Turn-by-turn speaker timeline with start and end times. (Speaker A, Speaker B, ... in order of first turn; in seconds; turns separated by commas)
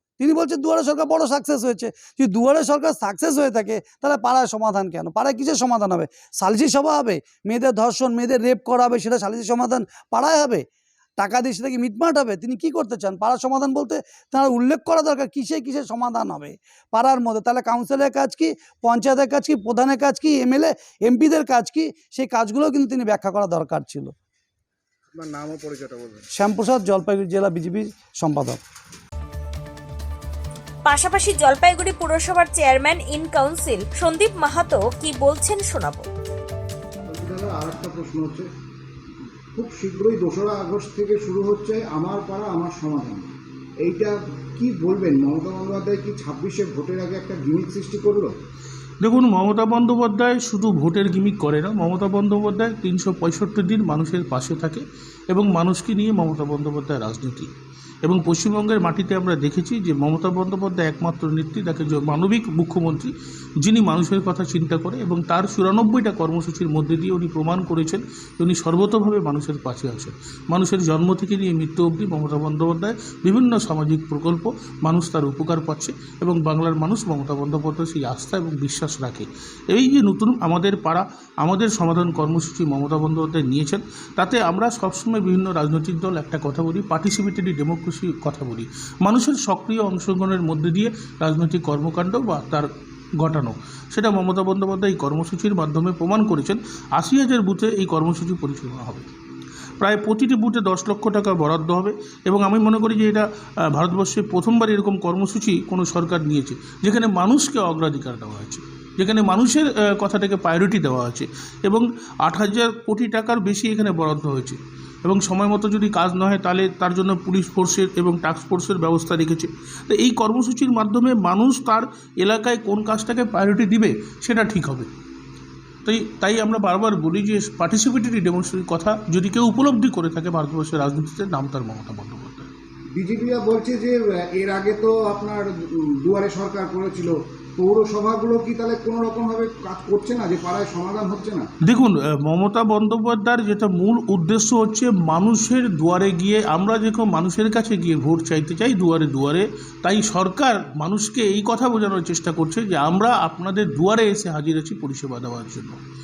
Speaker A: 0.2-10.6, Speaker A: 11.2-24.1, Speaker B: 25.1-26.2, Speaker A: 26.4-28.6, Speaker C: 30.8-36.1, Speaker B: 37.1-38.5, Speaker B: 39.5-43.3, Speaker B: 43.8-48.3, Speaker D: 49.0-57.5, Speaker D: 58.0-92.7, Speaker D: 93.2-99.0, Speaker D: 99.8-124.9, Speaker D: 125.8-132.5, Speaker B: 132.9-141.5, Speaker D: 141.6-155.8